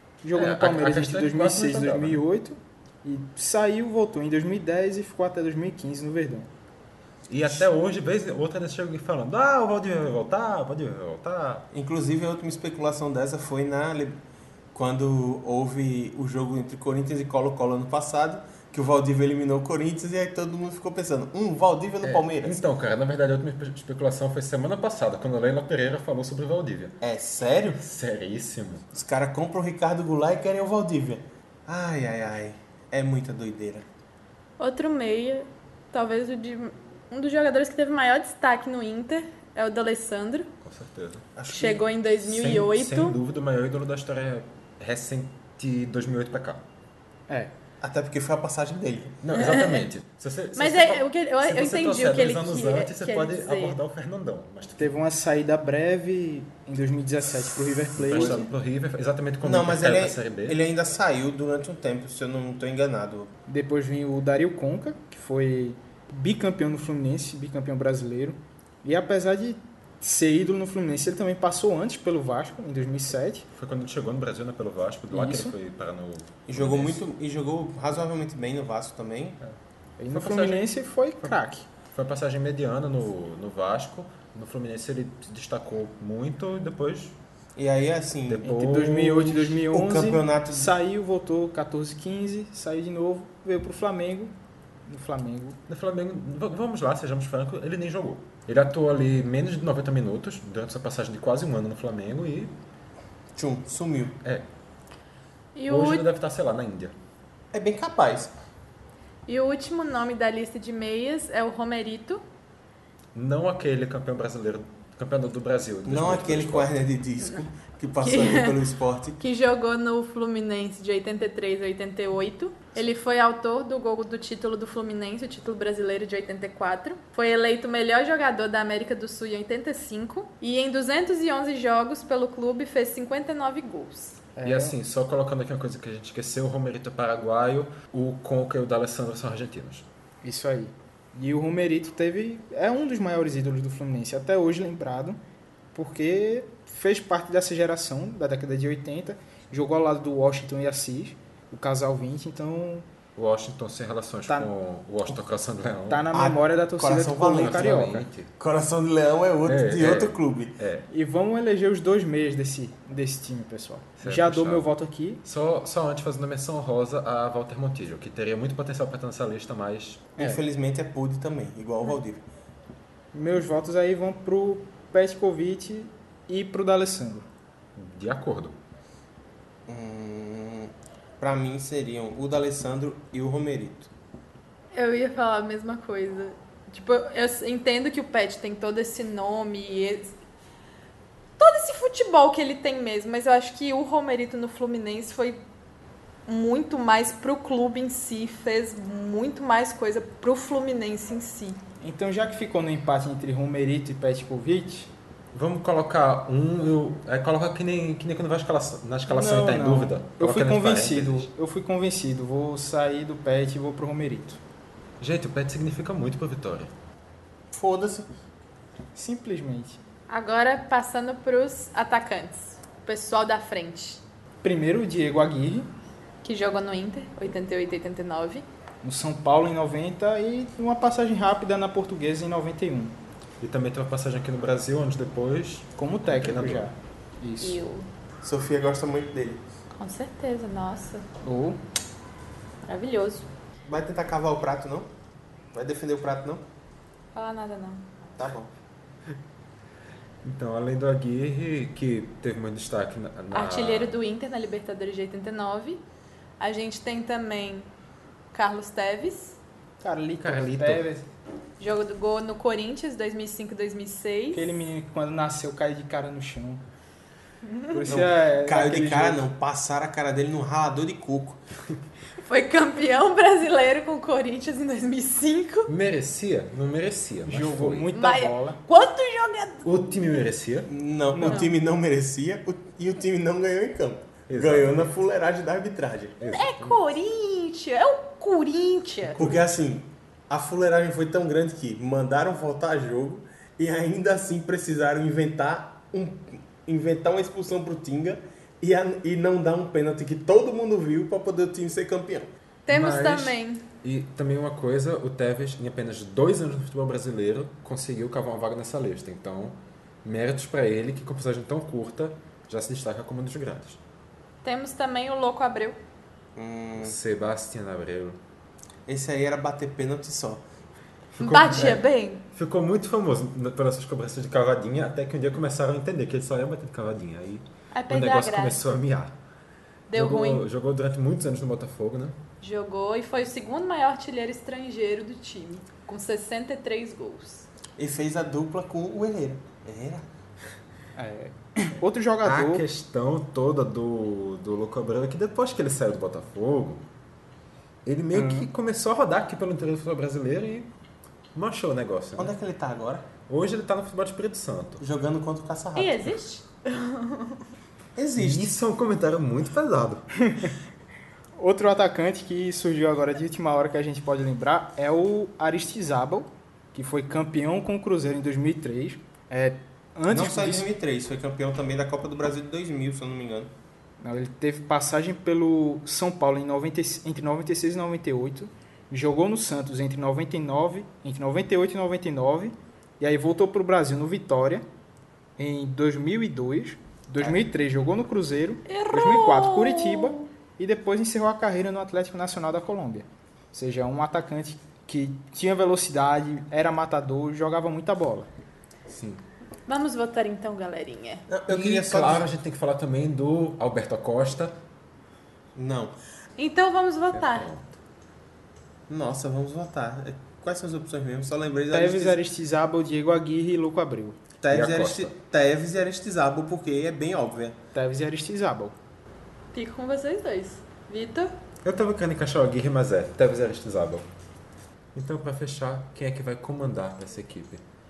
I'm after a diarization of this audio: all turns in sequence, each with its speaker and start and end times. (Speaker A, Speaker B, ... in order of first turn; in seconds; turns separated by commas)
Speaker A: 0.2-6.5, Speaker B: 0.3-2.2, Speaker B: 7.3-11.7, Speaker C: 11.7-14.2, Speaker C: 14.7-22.6, Speaker B: 22.0-27.0, Speaker C: 27.0-27.8, Speaker B: 27.7-28.9, Speaker C: 28.9-33.9, Speaker D: 34.6-40.5, Speaker B: 40.6-41.3, Speaker C: 41.4-41.8, Speaker D: 41.5-43.2, Speaker B: 42.2-46.6, Speaker C: 47.8-49.2, Speaker B: 49.2-55.0, Speaker D: 49.4-49.9, Speaker D: 50.6-53.8, Speaker A: 54.8-58.5, Speaker B: 58.0-60.6, Speaker C: 58.0-58.4, Speaker C: 59.4-63.3, Speaker A: 63.5-73.5, Speaker B: 73.5-77.0, Speaker A: 75.1-75.5, Speaker C: 76.5-79.4, Speaker A: 80.0-81.7, Speaker B: 80.1-81.4, Speaker B: 81.9-87.2, Speaker C: 87.6-88.7, Speaker B: 88.3-89.4, Speaker A: 88.4-94.3, Speaker C: 89.2-90.7, Speaker A: 94.9-95.6, Speaker B: 95.7-102.5, Speaker C: 103.4-104.2, Speaker B: 104.2-104.5, Speaker D: 105.5-106.1, Speaker B: 105.7-107.0, Speaker C: 107.5-108.3, Speaker D: 109.3-112.2, Speaker B: 113.1-116.8, Speaker C: 115.9-119.2, Speaker D: 118.0-118.7, Speaker D: 119.2-134.3, Speaker A: 134.4-134.8, Speaker B: 134.4-139.9, Speaker A: 140.2-145.2, Speaker A: 145.7-152.8, Speaker B: 153.2-156.1, Speaker A: 155.9-158.1, Speaker C: 156.1-160.6, Speaker B: 157.2-158.3, Speaker B: 159.4-160.9, Speaker A: 160.9-165.2, Speaker B: 164.0-164.7, Speaker B: 165.2-170.1, Speaker C: 170.2-172.2, Speaker A: 173.1-177.3, Speaker B: 177.8-178.6, Speaker C: 179.7-183.9, Speaker D: 184.7-190.1, Speaker D: 191.4-195.4, Speaker D: 196.3-201.6, Speaker A: 201.8-204.9, Speaker B: 205.3-211.3, Speaker A: 209.1-214.4, Speaker B: 215.0-216.7, Speaker C: 217.5-218.1, Speaker A: 218.9-219.8, Speaker D: 220.1-224.0, Speaker A: 224.4-225.7, Speaker D: 226.2-228.5, Speaker A: 228.8-232.9, Speaker B: 233.4-236.7, Speaker A: 235.8-237.6, Speaker D: 237.4-237.9, Speaker C: 238.2-239.4, Speaker D: 239.8-241.1, Speaker A: 241.2-241.6, Speaker D: 242.7-243.3, Speaker C: 243.7-244.9, Speaker C: 245.5-246.4, Speaker D: 247.2-247.9, Speaker C: 248.2-248.5, Speaker B: 250.2-254.0, Speaker D: 253.3-255.8, Speaker D: 256.4-257.7, Speaker D: 258.3-259.4, Speaker A: 259.8-261.1, Speaker B: 260.2-260.9, Speaker D: 261.6-264.5, Speaker A: 264.3-266.6, Speaker D: 267.4-267.8, Speaker A: 267.7-269.2, Speaker C: 267.9-271.4, Speaker D: 272.2-275.7, Speaker B: 275.7-277.9, Speaker A: 277.3-278.6, Speaker D: 277.9-279.7, Speaker B: 279.6-280.7, Speaker C: 280.7-286.3, Speaker A: 281.1-281.5, Speaker D: 281.2-281.6, Speaker B: 284.3-284.9, Speaker B: 286.2-286.8, Speaker D: 286.2-289.4, Speaker B: 289.1-289.5, Speaker C: 289.2-302.3, Speaker D: 302.7-303.6, Speaker B: 302.7-313.8, Speaker D: 314.4-315.8, Speaker C: 316.4-317.0, Speaker B: 316.8-318.2, Speaker C: 318.9-320.4, Speaker B: 321.2-329.2, Speaker D: 321.2-322.2, Speaker D: 327.7-328.7, Speaker D: 329.9-330.4, Speaker B: 329.9-332.2, Speaker D: 332.4-337.5, Speaker C: 337.8-340.1, Speaker A: 341.0-342.7, Speaker B: 342.2-346.9, Speaker B: 347.9-350.7, Speaker A: 348.1-348.5, Speaker B: 351.3-352.3, Speaker C: 352.2-353.1, Speaker B: 353.3-354.8, Speaker C: 354.8-356.2, Speaker D: 355.8-357.5, Speaker C: 358.0-358.5, Speaker B: 358.2-360.1, Speaker A: 360.2-360.6, Speaker A: 361.4-370.7, Speaker C: 370.1-373.5, Speaker A: 374.0-384.6, Speaker A: 385.4-398.3, Speaker D: 388.7-390.3, Speaker B: 398.9-399.2, Speaker D: 399.7-401.2, Speaker C: 401.3-402.3, Speaker B: 401.5-404.6, Speaker C: 405.6-405.9, Speaker D: 406.4-407.5, Speaker B: 407.1-407.8, Speaker C: 408.9-412.2, Speaker A: 411.7-414.2, Speaker C: 414.4-417.6, Speaker B: 414.5-415.2, Speaker A: 417.7-418.8, Speaker D: 419.5-421.3, Speaker B: 421.6-424.1, Speaker B: 424.9-427.6